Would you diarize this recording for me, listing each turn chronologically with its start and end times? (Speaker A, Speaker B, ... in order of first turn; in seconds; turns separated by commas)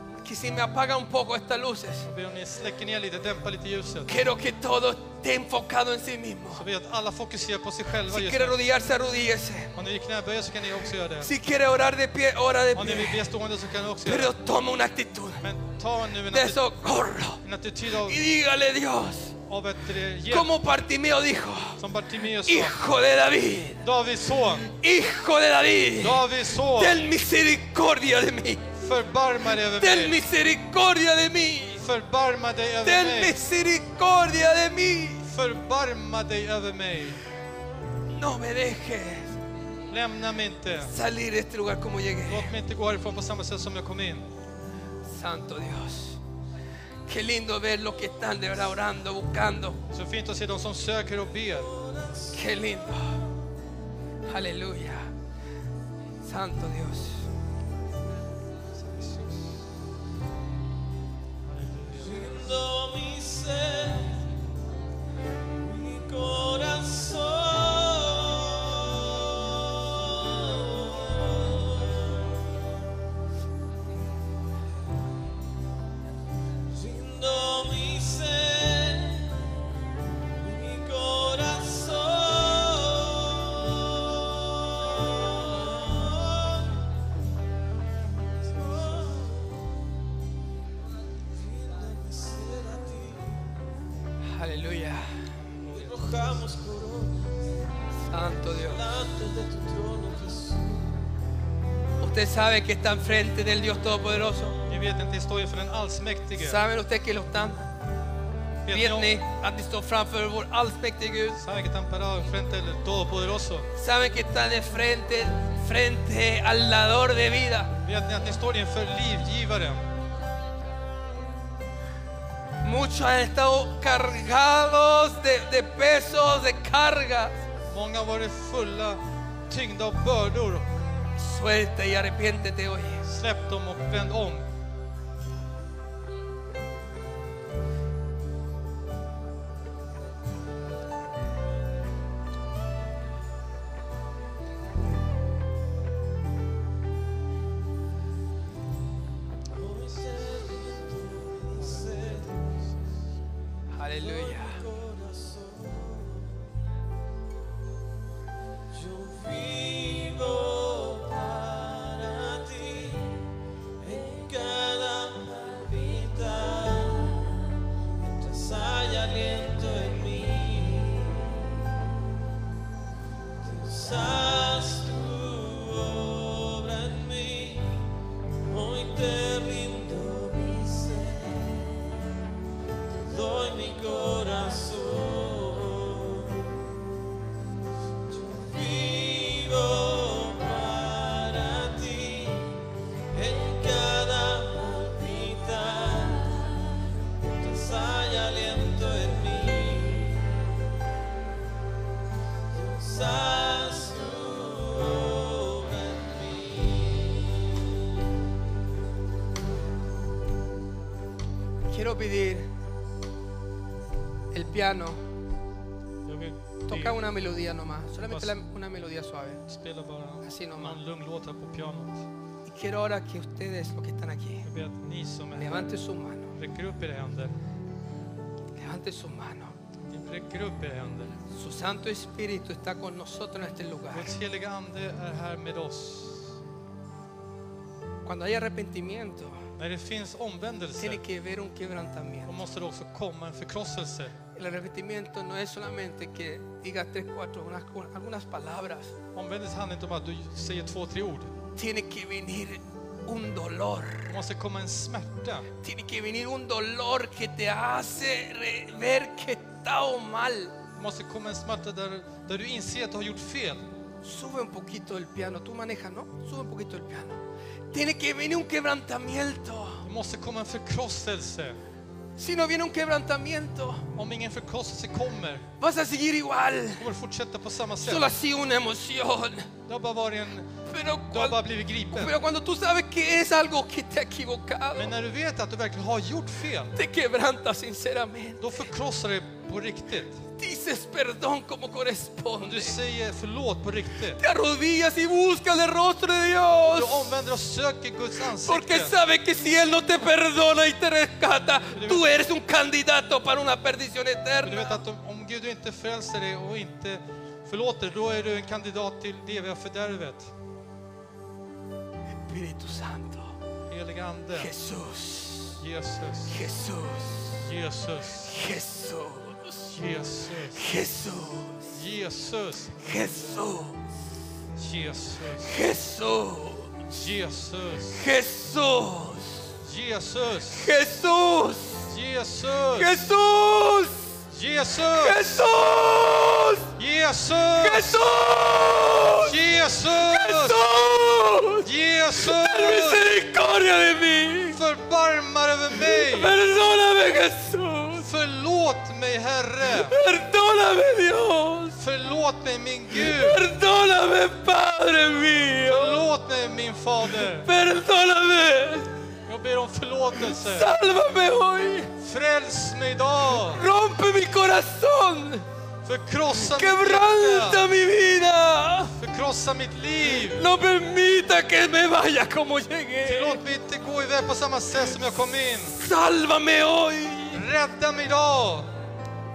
Speaker A: 0.2-2.1, Speaker B: 2.1-4.2, Speaker A: 4.1-6.7, Speaker B: 6.5-8.6, Speaker A: 8.1-9.7, Speaker B: 9.8-11.3, Speaker A: 11.2-13.3, Speaker B: 12.8-14.3, Speaker A: 14.1-15.4, Speaker B: 15.4-16.6, Speaker A: 16.3-17.4, Speaker B: 17.4-18.2, Speaker A: 18.0-19.4, Speaker B: 19.5-20.5, Speaker A: 20.3-21.8, Speaker B: 21.8-22.8, Speaker A: 22.4-23.8, Speaker B: 23.8-24.7, Speaker A: 24.6-28.7, Speaker B: 26.0-27.0, Speaker B: 28.8-30.2, Speaker A: 29.8-31.8, Speaker B: 31.8-33.4, Speaker A: 32.8-35.3, Speaker B: 35.3-37.2, Speaker A: 38.1-39.3, Speaker B: 39.9-40.9, Speaker A: 40.8-42.5, Speaker B: 42.3-44.3, Speaker A: 45.1-46.2, Speaker A: 47.1-49.8, Speaker B: 49.9-51.7, Speaker C: 51.7-52.4, Speaker A: 52.3-53.2, Speaker A: 54.3-55.1, Speaker A: 56.2-57.3, Speaker B: 61.5-62.3, Speaker C: 62.0-64.2, Speaker C: 65.6-72.6, Speaker C: 76.7-79.5, Speaker C: 80.3-86.8, Speaker C: 88.5-89.7, Speaker C: 91.3-93.5, Speaker A: 94.3-95.1, Speaker C: 95.7-97.3, Speaker A: 98.1-98.8, Speaker C: 98.5-101.0, Speaker A: 102.0-104.6, Speaker B: 104.7-106.6, Speaker A: 106.4-107.6, Speaker B: 108.7-109.2, Speaker A: 108.7-111.4, Speaker B: 111.3-113.7, Speaker A: 113.8-117.7, Speaker B: 117.8-119.8, Speaker A: 122.6-127.3, Speaker B: 127.7-130.7, Speaker A: 131.2-133.0, Speaker B: 133.1-134.5, Speaker C: 149.5-152.6, Speaker A: 153.7-154.6, Speaker C: 154.0-156.5, Speaker C: 158.7-163.3, Speaker C: 163.8-171.6, Speaker C: 173.4-177.8, Speaker C: 178.5-182.1, Speaker C: 183.1-186.6, Speaker C: 188.2-192.6, Speaker C: 193.1-196.8, Speaker C: 197.4-200.5, Speaker C: 202.5-207.6, Speaker A: 211.7-212.5, Speaker A: 214.3-215.0, Speaker B: 216.1-217.0, Speaker A: 216.7-219.4, Speaker B: 218.1-218.4, Speaker B: 219.5-222.1, Speaker A: 220.2-220.8, Speaker A: 222.5-224.5, Speaker B: 224.4-225.7, Speaker A: 225.4-226.3, Speaker B: 226.4-227.3, Speaker A: 228.6-229.5, Speaker B: 229.9-231.2, Speaker A: 231.3-234.1, Speaker B: 233.9-236.4, Speaker A: 238.1-239.5, Speaker B: 239.6-241.0, Speaker A: 240.8-242.4, Speaker B: 242.3-244.2, Speaker A: 244.3-248.9, Speaker B: 249.2-251.3, Speaker A: 251.6-254.2, Speaker B: 254.1-255.5, Speaker A: 255.6-260.6, Speaker B: 260.8-263.6, Speaker A: 264.0-267.2, Speaker A: 267.7-269.8, Speaker B: 269.8-271.6, Speaker A: 272.2-273.8, Speaker B: 273.9-275.5, Speaker A: 275.6-276.9, Speaker B: 276.8-278.1, Speaker A: 277.8-279.5, Speaker B: 279.7-282.2, Speaker A: 280.7-281.4, Speaker A: 281.9-284.9, Speaker B: 284.8-286.8, Speaker A: 286.8-288.5, Speaker B: 288.4-290.2, Speaker A: 290.4-292.8, Speaker B: 292.4-294.2, Speaker A: 294.2-297.1, Speaker B: 296.6-298.9, Speaker A: 298.4-304.8, Speaker B: 301.7-302.1, Speaker B: 304.4-310.3, Speaker A: 312.3-313.4, Speaker B: 313.7-314.5, Speaker A: 314.3-315.6, Speaker B: 315.6-316.4, Speaker A: 316.3-317.4, Speaker B: 317.4-318.3, Speaker A: 318.3-319.7, Speaker B: 319.7-320.6, Speaker A: 320.6-321.7, Speaker B: 321.8-323.2, Speaker A: 322.8-323.8, Speaker B: 324.6-325.6, Speaker A: 325.4-326.7, Speaker B: 326.9-328.1, Speaker A: 327.9-329.5, Speaker B: 329.6-330.7, Speaker A: 330.5-331.9, Speaker B: 331.9-333.1, Speaker A: 332.8-334.1, Speaker B: 334.3-335.5, Speaker A: 334.9-336.7, Speaker B: 336.8-338.1, Speaker A: 337.6-339.4, Speaker B: 339.2-340.6, Speaker A: 340.0-341.7, Speaker B: 341.6-343.1, Speaker A: 342.2-344.6, Speaker B: 344.5-346.4, Speaker A: 345.7-348.1, Speaker B: 348.0-350.0, Speaker A: 349.7-351.8, Speaker B: 351.8-353.4, Speaker A: 352.9-356.0, Speaker B: 355.7-357.5, Speaker A: 357.3-358.9, Speaker B: 359.3-360.7, Speaker A: 360.2-361.9, Speaker B: 362.0-363.6, Speaker A: 363.3-365.5, Speaker B: 365.8-367.7, Speaker A: 366.4-368.9, Speaker B: 368.9-370.4, Speaker A: 370.2-373.4, Speaker B: 373.0-375.8, Speaker A: 375.7-377.5, Speaker B: 377.3-378.7